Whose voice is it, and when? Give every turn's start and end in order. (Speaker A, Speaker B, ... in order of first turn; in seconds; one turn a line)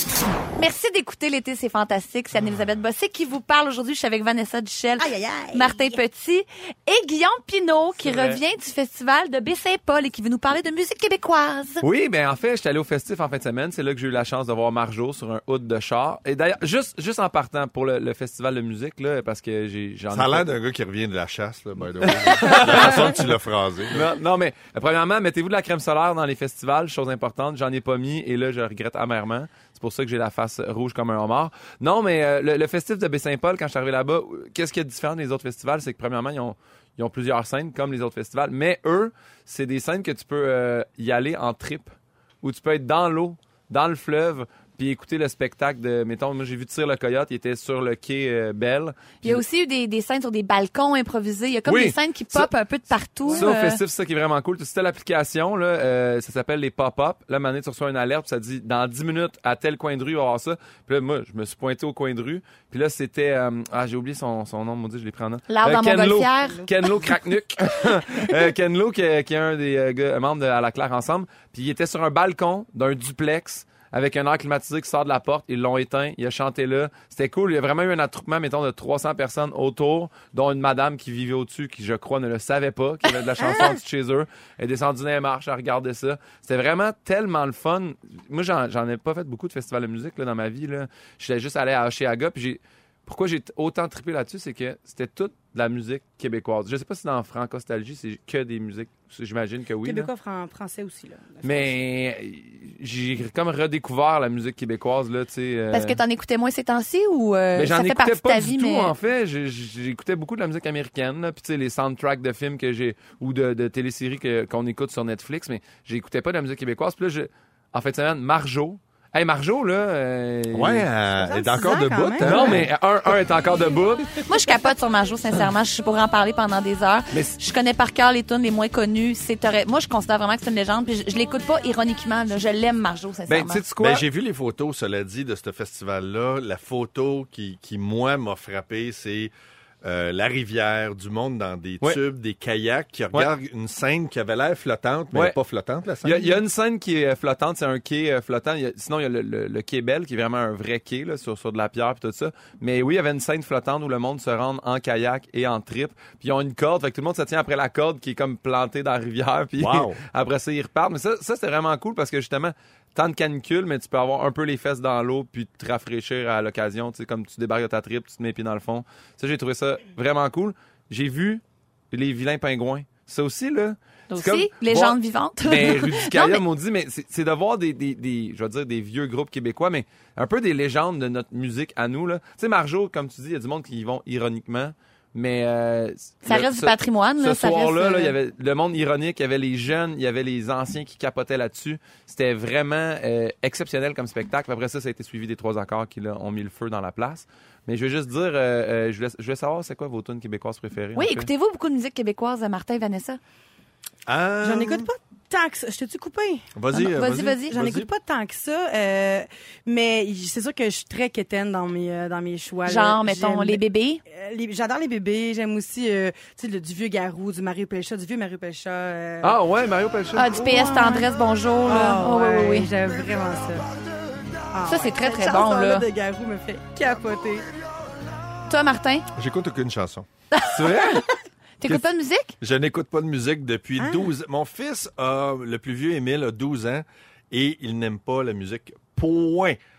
Speaker A: 0.6-11.8
Speaker B: 5.0-6.0
Speaker C: 8.0-8.4
Speaker C: 11.8-20.5
Speaker D: 20.1-24.1
Speaker C: 22.1-23.2
Speaker C: 23.9-49.4
Speaker A: 49.2-53.8
Speaker C: 51.7-52.5
Speaker C: 53.3-100.1
Speaker A: 65.5-66.7
Speaker B: 83.4-83.8
Speaker B: 99.8-101.8
Speaker C: 101.4-106.0
Speaker A: 105.7-108.9
Speaker C: 107.6-120.9
Speaker D: 120.5-122.7
Speaker B: 121.1-122.6
Speaker C: 122.2-124.2
Speaker A: 124.2-133.7
Speaker C: 127.1-127.4
Speaker C: 133.3-134.0
Speaker D: 133.8-139.3
Speaker D: 139.8-146.4
Speaker C: 146.0-201.3
Speaker D: 159.6-160.0
Speaker A: 174.1-176.4
Speaker A: 186.2-188.1
Speaker A: 201.0-203.2
Speaker D: 204.1-204.9
Speaker B: 204.4-206.5
Speaker D: 206.6-207.9
Speaker A: 206.7-207.6
Speaker B: 207.5-219.4
Speaker A: 212.7-214.0
Speaker C: 219.2-220.3
Speaker A: 220.2-222.7
Speaker B: 220.3-221.1
Speaker B: 221.7-223.7
Speaker B: 224.5-227.5
Speaker A: 224.7-225.9
Speaker A: 228.5-229.1
Speaker D: 229.2-230.1
Speaker A: 230.3-231.1
Speaker C: 230.5-231.1
Speaker A: 231.6-232.4
Speaker D: 232.4-239.6
Speaker B: 233.8-234.1